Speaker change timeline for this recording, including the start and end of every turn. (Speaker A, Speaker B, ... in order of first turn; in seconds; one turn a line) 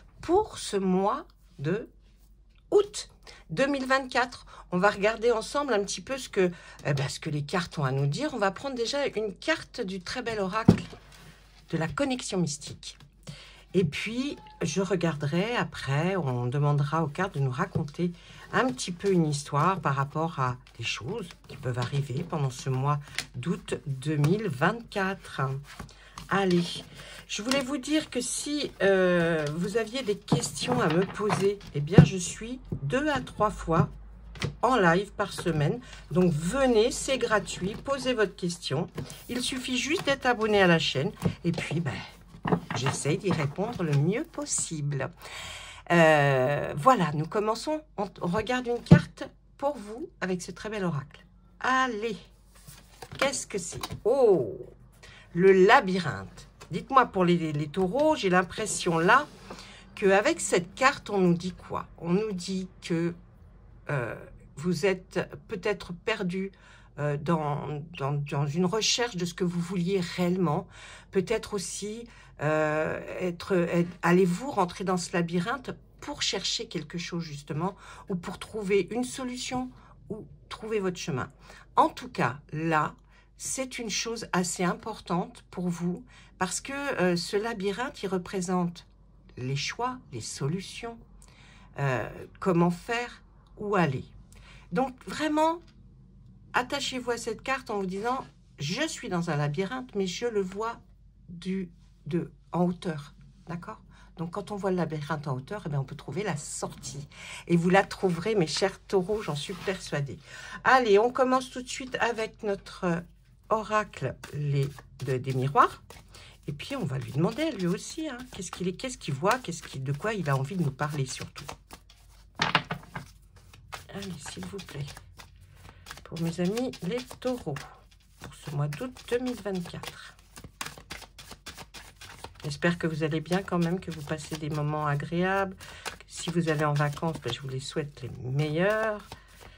Speaker A: 0.2-1.9
Speaker A: 2.7-10.9
Speaker A: 11.7-13.0
Speaker A: 13.7-25.6
Speaker A: 26.3-33.9
Speaker A: 34.6-42.1
Speaker A: 42.7-45.1
Speaker A: 45.9-52.2
Speaker A: 53.1-54.8
Speaker A: 55.3-59.3
Speaker A: 60.0-63.2
Speaker A: 63.9-91.0
Speaker A: 91.8-94.1
Speaker A: 94.7-95.6
Speaker A: 96.5-115.8
Speaker A: 116.5-121.5
Speaker A: 123.9-124.9
Speaker A: 126.0-127.6
Speaker A: 128.2-130.2
Speaker A: 132.4-135.6
Speaker A: 136.1-139.1